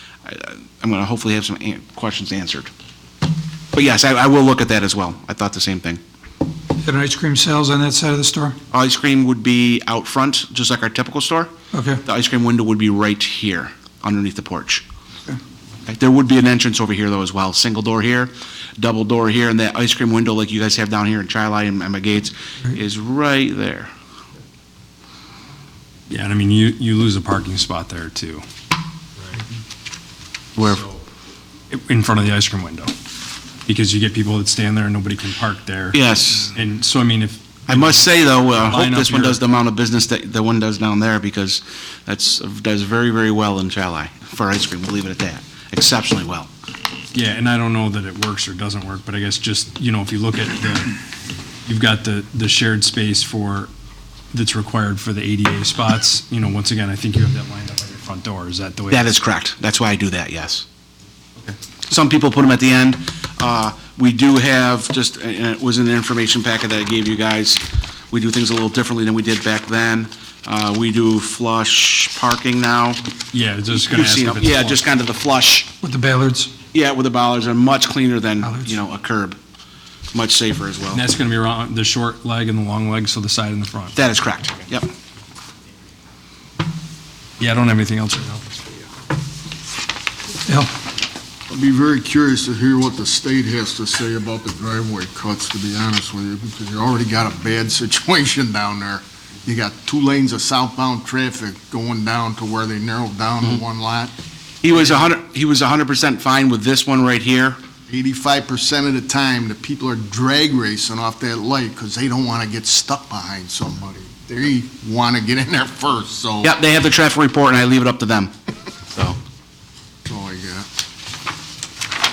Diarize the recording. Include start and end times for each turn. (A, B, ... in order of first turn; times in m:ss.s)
0:00.3-0:02.7 A
0:03.7-0:06.0 A
0:06.8-0:08.6 B
0:08.7-0:11.5 A
0:11.7-0:12.0 B
0:12.0-0:14.8 A
0:15.9-0:23.9 A
0:26.1-0:28.4 C
0:30.6-0:30.8 A
0:31.7-0:32.9 C
0:33.6-0:39.4 C
0:35.9-0:36.6 A
0:37.7-0:46.5 A
0:47.1-0:51.0 C
0:51.6-0:53.7 C
0:54.3-0:59.1 C
0:58.9-1:00.6 A
1:01.9-1:13.0 A
1:13.3-1:14.8 C
1:13.8-1:15.7 A
1:15.8-1:16.5 B
1:16.7-1:19.4 A
1:18.4-1:18.8 B
1:20.1-1:21.0 A
1:20.9-1:24.0 C
1:24.0-1:24.9 A
1:27.4-1:28.9 C
1:30.5-1:30.7 B
1:31.5-1:44.1 D
1:44.6-1:47.6 A
1:47.9-1:56.5 D
1:56.4-1:58.3 A
2:00.1-2:00.7 D